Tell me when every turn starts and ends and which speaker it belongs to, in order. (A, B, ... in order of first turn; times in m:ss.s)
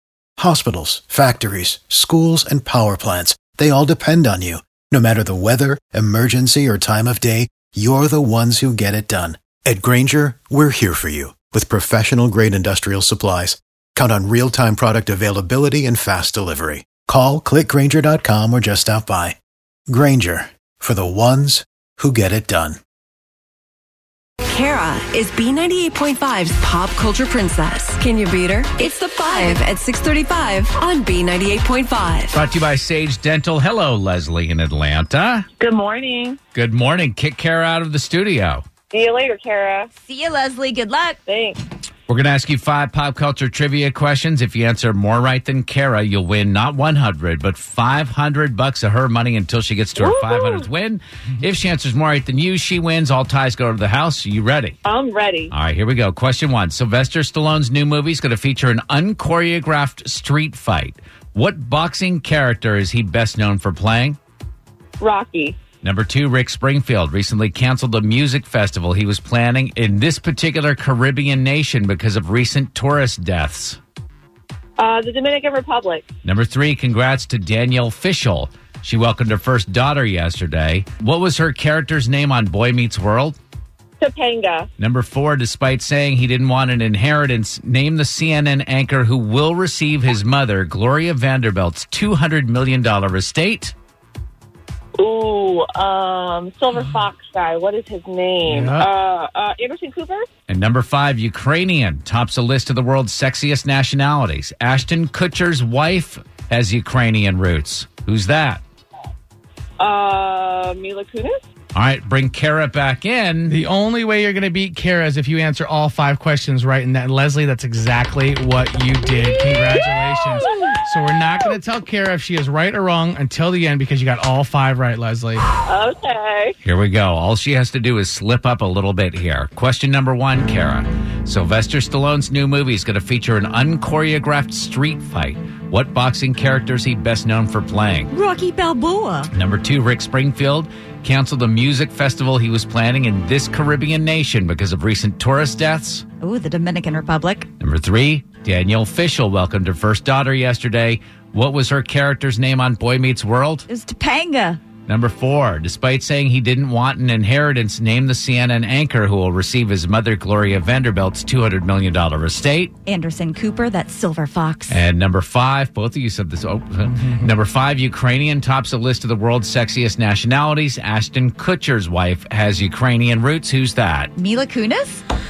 0:00.4-0:19.4 A
0:19.9-0:22.8 A
0:24.4-0:32.4 B
0:32.3-0:35.5 C
0:35.6-0:36.4 D
0:36.5-0:38.6 C
0:38.9-0:39.9 D
0:40.1-0:41.2 E
0:41.2-0:41.6 D
0:42.1-0:54.8 C
0:50.0-0:50.7 D
0:54.8-0:55.5 D
0:55.5-1:04.2 C
1:05.0-1:05.6 D
1:05.8-1:13.8 C
1:14.8-1:16.0 D
1:16.2-1:23.4 C
1:24.0-1:24.7 D
1:24.8-1:33.7 C
1:35.0-1:40.3 D
1:38.4-1:38.9 F
1:40.5-1:48.6 C
1:49.8-1:51.4 D
1:51.7-1:53.6 C
1:53.5-2:05.5 F
1:59.5-1:59.8 D
2:05.6-2:06.5 D
2:06.6-2:18.1 C
2:18.1-2:19.3 E
2:19.3-2:26.0 C
2:26.2-2:27.5 E
2:27.6-2:33.7 C
2:33.7-2:34.6 E
2:34.8-2:42.7 C
2:42.9-2:44.8 E
2:44.7-2:54.1 C
2:46.9-2:47.3 F
2:54.2-2:55.0 E